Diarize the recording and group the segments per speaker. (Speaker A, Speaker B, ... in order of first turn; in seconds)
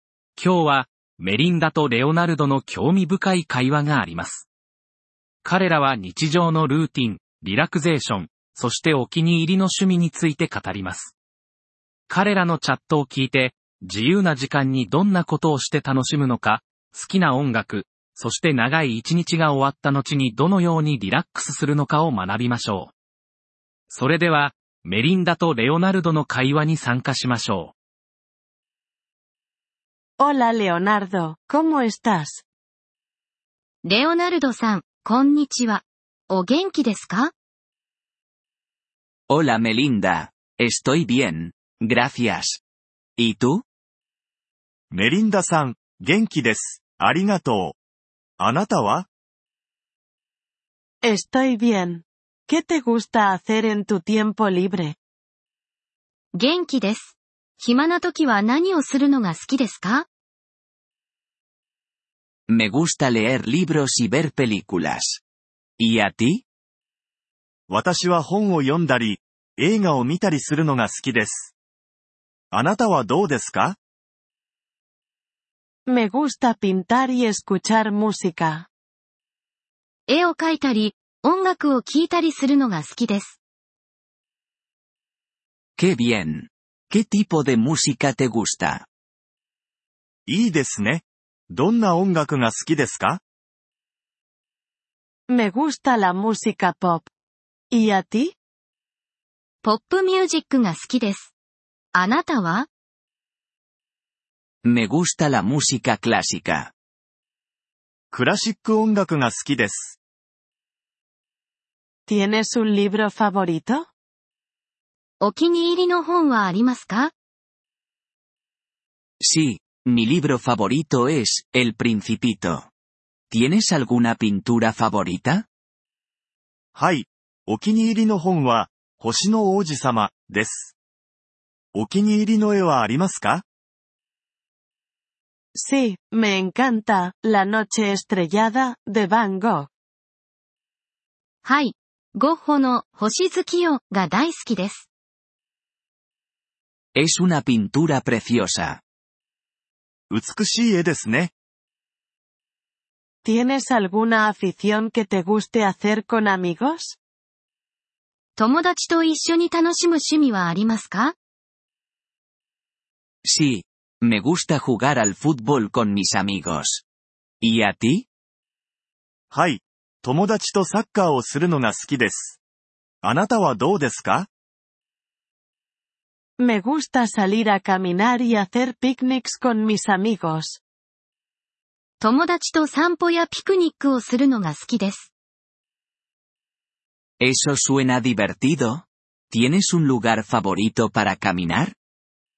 Speaker A: 0.3-4.5, 5.4-11.1, 12.1-22.9, 23.9-27.7
Speaker B: 30.2-32.4, 51.0-55.0, 75.9-78.7, 95.3-97.1, 97.7-98.3, 112.1-113.9, 135.5-139.7, 153.2-157.0, 176.4-180.6
Speaker C: 33.8-37.3, 56.3-60.1, 80.1-83.4, 99.6-101.3, 101.9-102.7, 115.2-117.1, 141.4-144.9, 158.3-161.1, 182.0-185.1
Speaker D: 39.3-42.6, 43.2-43.6, 62.5-65.2, 65.8-66.4, 85.8-88.9, 104.6-106.7, 119.2-122.7, 123.3-125.5, 146.9-148.8, 163.2-166.8, 167.4-168.1, 187.2-191.8
Speaker E: 44.9-47.8, 48.4-49.1, 67.7-71.5, 72.5-73.8, 90.2-93.2, 108.1-110.0, 126.8-130.7, 131.7-133.4, 150.1-151.3, 169.3-172.4, 173.0-174.3